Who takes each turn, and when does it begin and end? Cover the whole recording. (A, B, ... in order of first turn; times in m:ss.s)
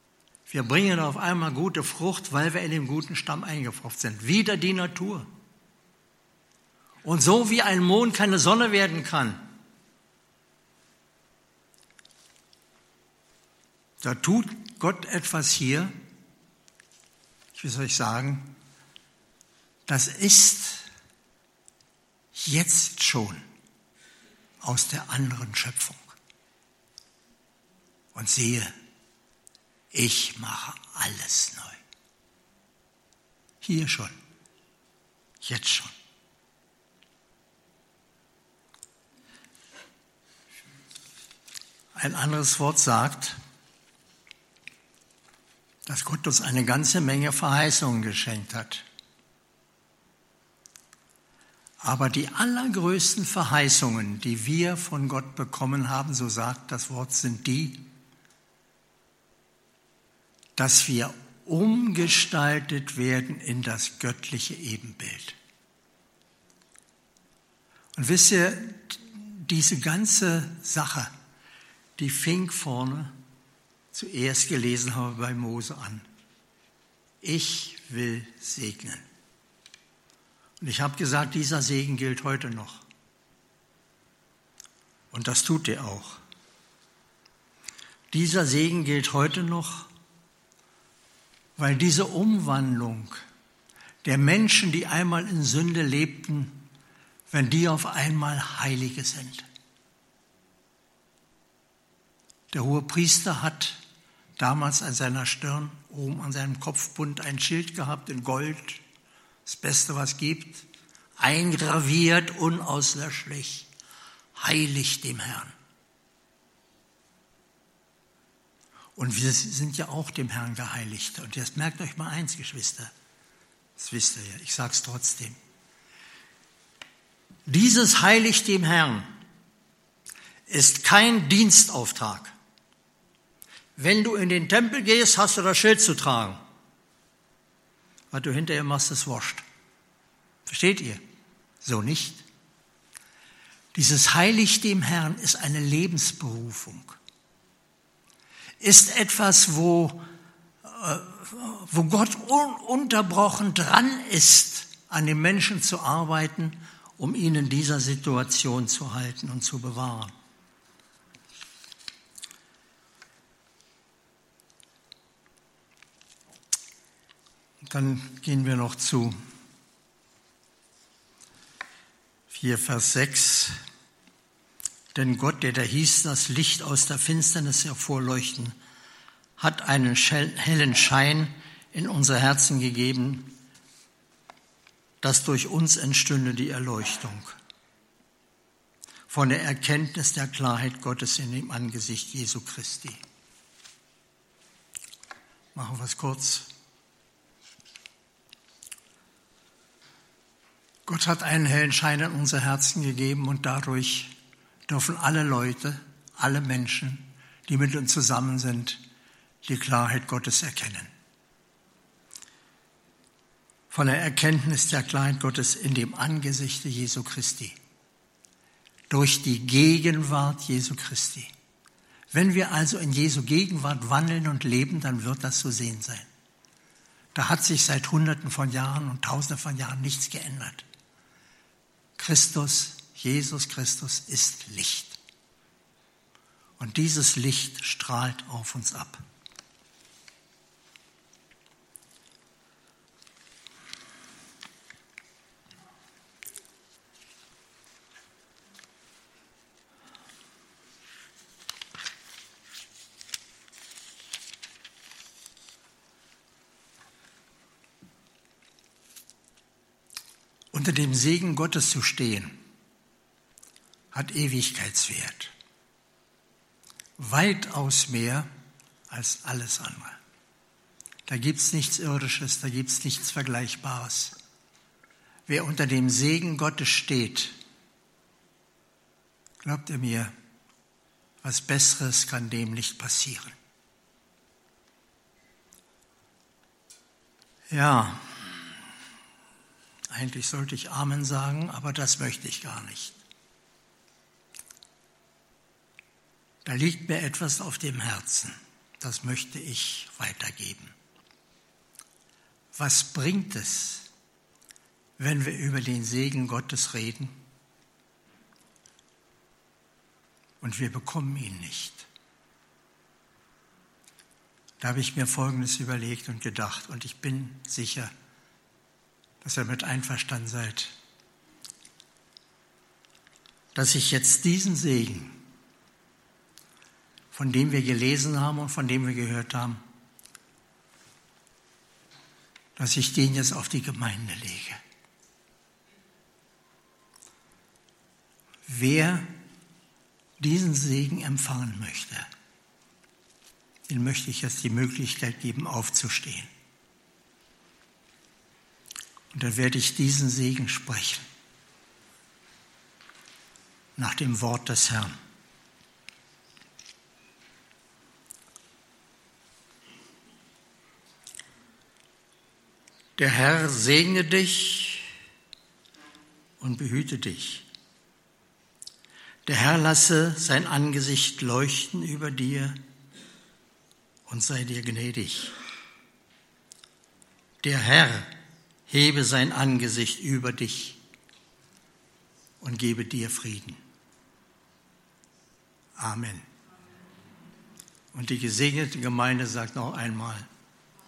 0:00.5-0:05.3 A
0:07.0-0:09.4 A
0:14.0-0:15.9 A
0:17.6-0:18.6 A
0:19.9-0:20.9 A
0:22.3-0:23.4 A
0:24.6-0:26.2 A
0:28.1-0:28.7 A
0:29.9-0:31.8 A
0:33.6-0:34.1 A
0:35.4-0:35.9 A
0:42.0-0:43.4 A
0:45.9-0:48.9 A
0:51.8-0:57.9 A
1:00.6-1:05.4 A
1:08.0-1:11.1 A
1:12.0-1:13.1 A
1:13.9-1:16.1 A
1:17.2-1:19.0 A
1:20.6-1:22.8 A
1:25.1-1:26.2 A
1:28.1-1:29.9 A
1:31.6-1:33.2 A
1:34.0-1:36.7 A
1:37.3-1:39.5 A
1:42.5-1:43.8 A
1:44.4-1:48.8 A
1:49.4-1:50.7 A
1:51.2-1:53.7 A
1:54.4-1:55.5 A
1:59.0-2:02.9 A
2:03.8-2:05.4 A
2:07.5-2:09.1 A
2:10.5-2:12.3 A
2:13.8-2:16.4 A
2:18.1-2:19.4 A
2:20.5-2:21.0 A
2:21.6-2:22.2 A
2:23.8-2:27.0 A
2:28.6-2:30.0 A
2:30.6-2:40.1 A
2:47.6-2:49.2 A
2:52.3-2:53.6 A
2:55.0-2:58.6 A
2:59.4-3:03.4 A
3:05.0-3:07.4 A
3:09.1-3:13.0 A
3:15.6-3:16.5 A
3:20.9-3:24.1 A
3:24.7-3:28.8 A
3:29.4-3:30.9 A
3:33.7-3:37.6 A
3:38.9-3:41.3 A
3:42.1-3:46.1 A
3:47.1-3:50.7 A
3:52.0-3:55.0 A
3:56.6-3:59.0 A
4:20.5-4:22.4 A
4:23.9-4:25.3 A
4:27.0-4:28.3 A
4:28.9-4:30.0 A
4:31.1-4:34.2 A
4:35.3-4:37.4 A
4:39.4-4:40.1 A
4:41.2-4:43.4 A
4:47.5-4:48.2 A
4:49.9-4:53.0 A
4:56.4-5:00.8 A
5:02.6-5:03.9 A
5:05.0-5:07.2 A
5:10.4-5:11.9 A
5:14.6-5:17.9 A
5:19.2-5:20.8 A
5:23.6-5:25.2 A
5:27.1-5:29.6 A
5:32.6-5:34.6 A
5:38.5-5:39.1 A
5:40.2-5:42.1 A
5:43.7-5:46.3 A
5:49.1-5:51.0 A
5:53.8-5:55.0 A
6:03.0-6:04.9 A
6:06.4-6:07.5 A
6:09.3-6:12.6 A
6:14.1-6:15.4 A
6:17.4-6:18.1 A
6:18.7-6:20.8 A
6:22.4-6:23.6 A
6:25.8-6:26.2 A
6:27.9-6:30.3 A